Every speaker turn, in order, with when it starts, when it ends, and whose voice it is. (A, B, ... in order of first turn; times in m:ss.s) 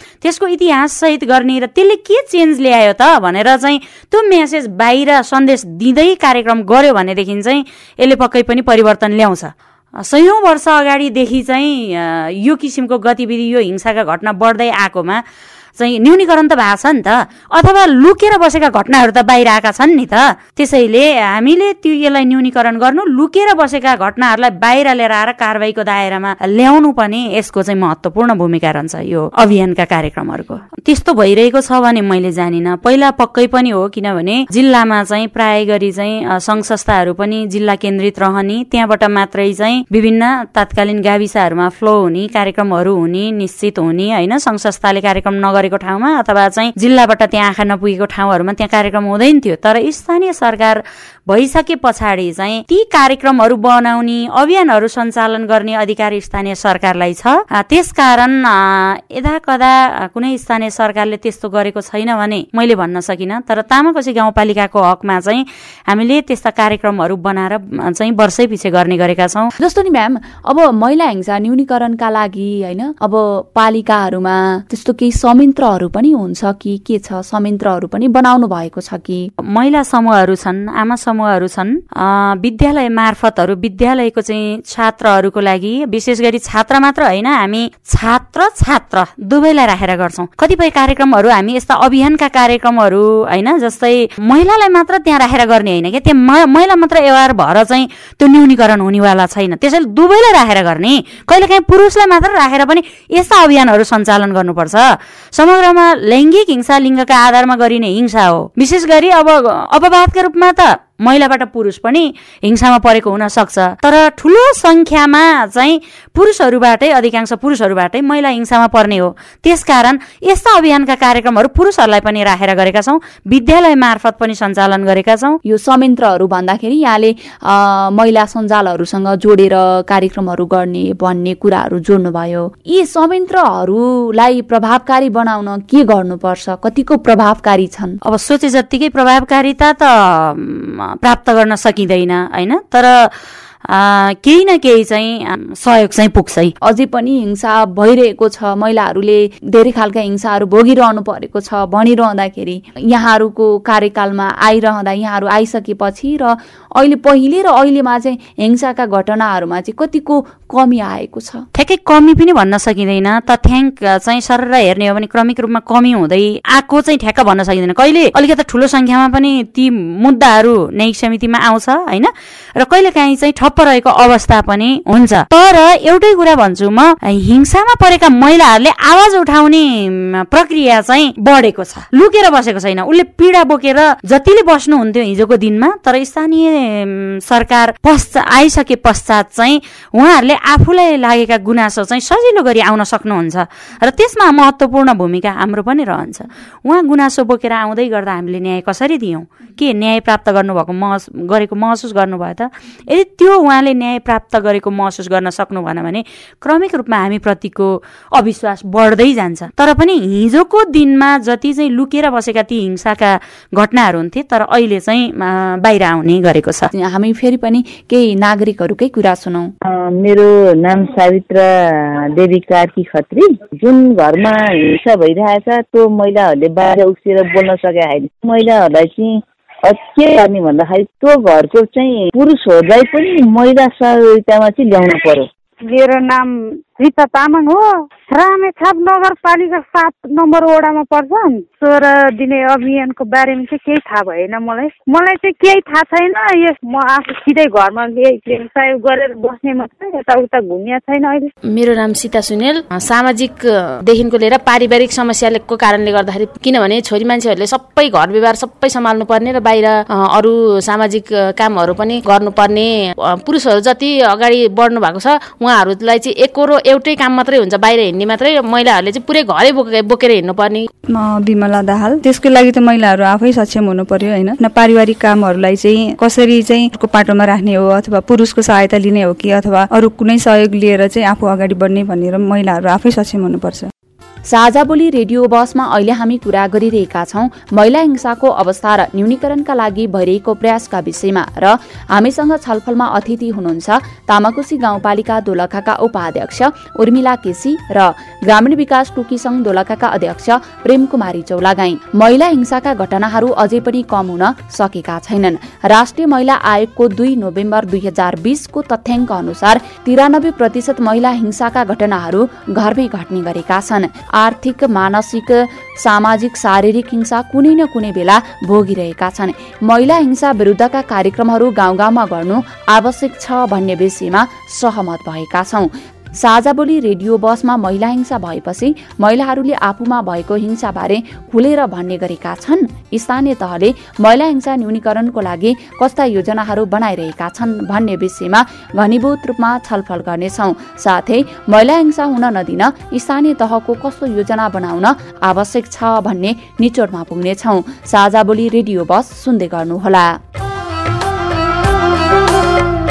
0:00.2-0:15.2 A
0:15.8-1:09.5 A
1:09.6-1:19.3 B
1:19.5-2:05.4 A
2:05.4-2:18.0 B
2:18.0-2:23.1 A
2:23.7-2:26.5 A
2:26.6-2:41.4 B
2:41.5-3:36.7 A
3:36.8-3:39.5 B
3:39.7-3:41.4 C
3:42.1-3:55.2 C
3:55.6-4:11.3 D
4:11.5-4:30.6 E
4:30.9-4:43.7 F
4:44.3-5:50.2 B